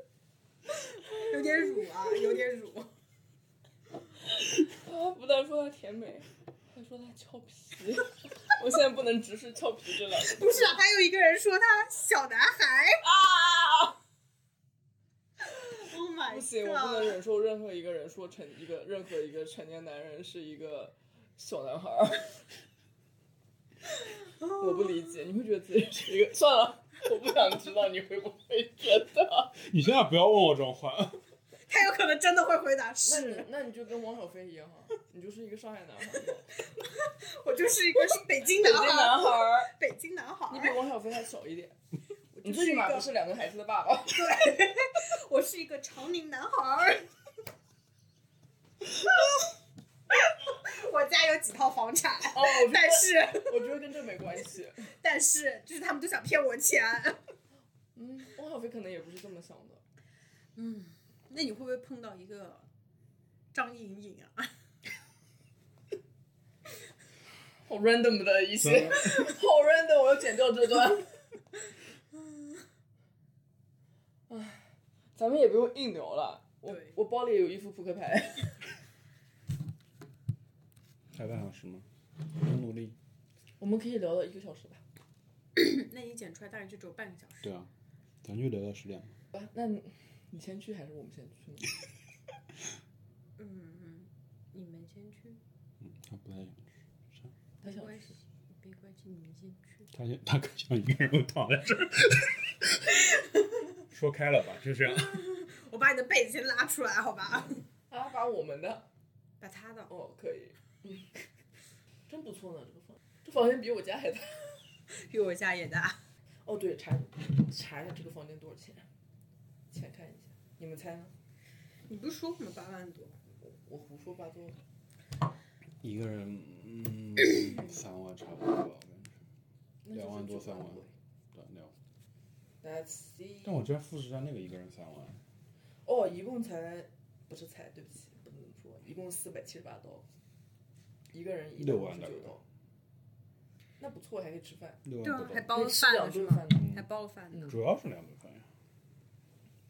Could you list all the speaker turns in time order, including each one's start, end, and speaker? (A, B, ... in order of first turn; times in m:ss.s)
0:00.8-0:02.9 A
0:01.2-0:01.9 B
0:04.6-0:10.8 B
0:10.2-0:13.0 A
0:13.0-0:14.0 B
0:15.4-0:17.2 A
0:16.2-0:22.4 B
0:24.2-0:24.9 A
0:24.5-0:29.5 B
0:29.6-0:31.2 C
0:31.7-0:33.4 A
0:33.0-0:36.5 B
0:36.6-0:40.8 A
0:38.2-0:39.7 B
0:40.5-0:41.8 B
0:42.3-0:43.1 A
0:42.4-0:44.6 B
0:44.1-0:47.1 A
0:48.9-0:49.5 A
0:50.1-0:53.8 A
0:52.3-0:54.9 B
0:54.8-0:57.2 A
0:57.9-0:59.8 B
1:00.6-1:02.7 A
1:03.5-1:04.5 A
1:07.6-1:11.2 B
1:08.6-1:09.3 C
1:14.3-1:18.6 B
1:21.1-1:23.0 C
1:23.6-1:24.8 B
1:25.6-1:27.5 A
1:27.4-1:27.7 C
1:28.2-1:29.2 C
1:29.3-1:31.7 B
1:33.4-1:35.4 A
1:35.8-1:37.3 C
1:37.6-1:39.9 A
1:37.6-1:38.1 B
1:39.9-1:42.9 C
1:43.9-1:45.2 C
1:44.8-1:47.6 A
1:47.9-1:48.8 B
1:49.4-1:49.9 A
1:49.9-1:51.2 B
1:52.1-1:54.6 B
1:54.9-1:56.0 A
1:56.4-1:58.8 B
1:59.7-2:01.1 B
2:01.9-2:03.2 A
2:03.4-2:04.6 B
2:05.8-2:09.2 C
2:09.8-2:10.9 B
2:09.9-2:11.7 C
2:12.6-2:13.6 B
2:13.4-2:15.2 C
2:15.8-2:20.0 B
2:21.1-2:22.4 B
2:21.6-2:22.3 C
2:23.8-2:24.8 B
2:24.8-2:25.5 C
2:25.0-2:27.5 A
2:25.5-2:26.7 B
2:26.5-2:26.8 C
2:27.5-2:28.5 C